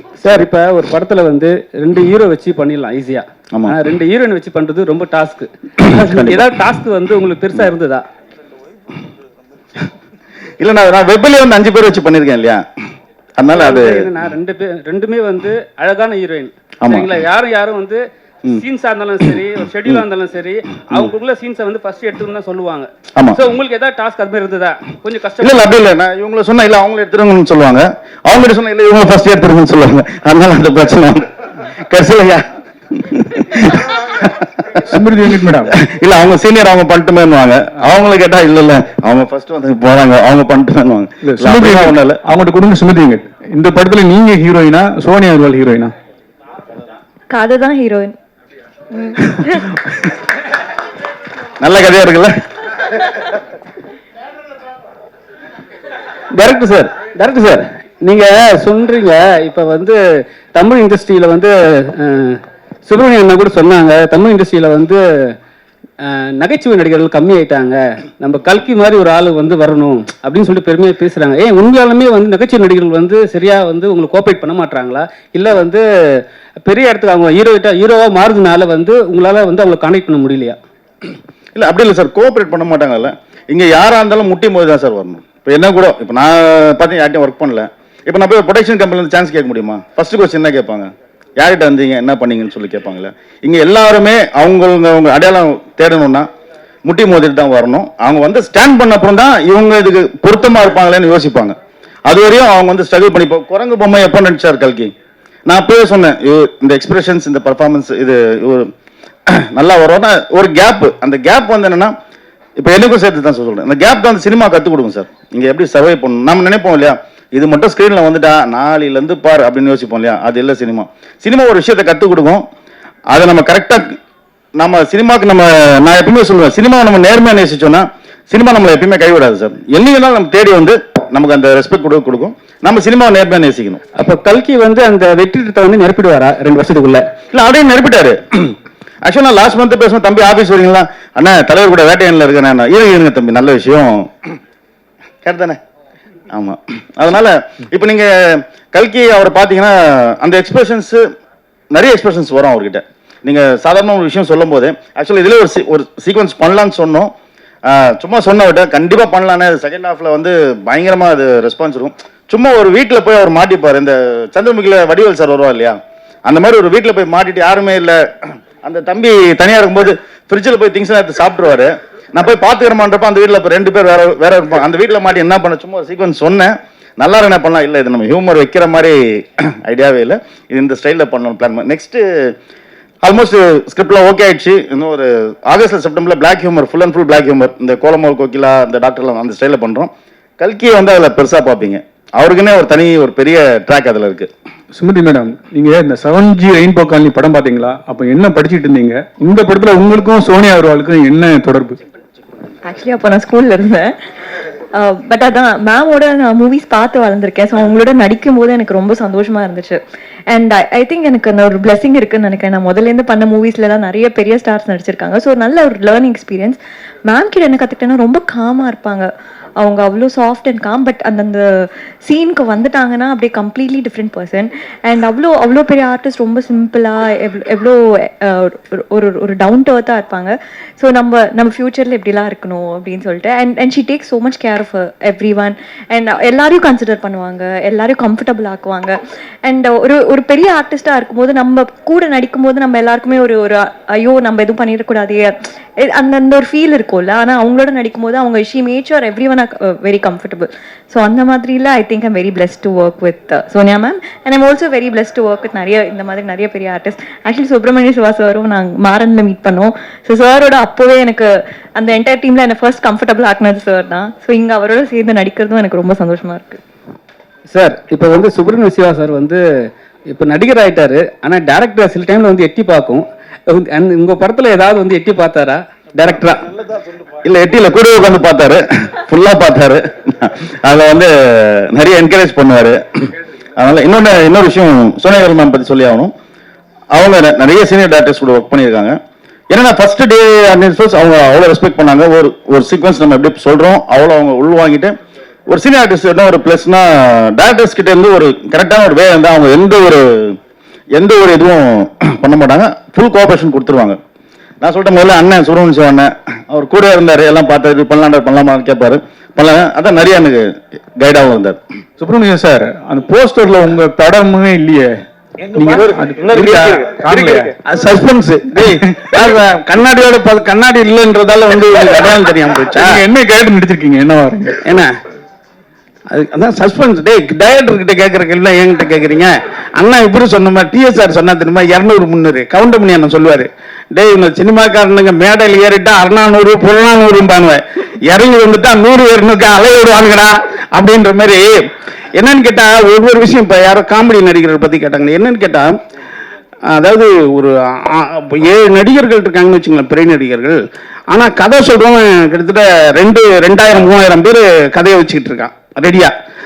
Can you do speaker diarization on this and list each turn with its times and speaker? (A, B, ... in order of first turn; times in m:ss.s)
0:00.2-0:08.0 A
0:06.0-0:06.4 B
0:10.6-0:12.6 B
0:13.4-0:14.1 B
0:13.5-0:25.7 A
0:16.8-0:17.1 B
0:23.2-0:23.4 B
0:25.4-0:34.5 B
0:34.8-0:35.7 C
0:35.7-0:42.2 B
0:41.2-0:45.9 C
0:47.3-0:48.1 D
0:49.1-0:49.6 D
0:51.6-0:53.0 B
0:56.3-1:00.0 A
1:00.5-1:05.0 A
1:06.0-1:15.8 A
1:16.6-1:20.6 A
1:21.6-1:36.3 B
1:36.9-1:41.6 B
1:42.1-1:44.9 B
1:45.5-1:48.7 B
1:49.3-1:51.9 B
1:52.6-2:02.4 B
2:03.1-2:04.0 B
2:04.6-2:13.8 B
2:14.0-2:17.0 A
2:17.3-2:18.6 B
2:19.1-2:24.1 B
2:25.2-2:25.6 B
2:26.3-2:31.0 B
2:31.7-2:37.1 B
2:37.7-3:02.3 B
3:03.0-3:14.3 B
3:14.7-3:21.8 C
3:22.6-3:23.9 D
3:24.7-4:26.6 D
4:27.5-4:29.4 A
4:30.1-4:36.5 A
4:37.2-4:46.1 B
4:46.9-4:49.0 B
4:49.5-4:54.9 B
4:55.5-5:00.4 B
5:01.0-5:04.0 B
5:04.6-5:11.6 B
5:12.0-5:17.5 C
5:17.6-5:23.0 E
5:18.6-5:18.9 C
5:22.7-5:24.6 C
5:24.6-5:24.9 E
5:26.1-5:41.6 E
5:42.2-5:45.7 E
5:46.7-5:50.6 E
5:51.1-5:56.1 E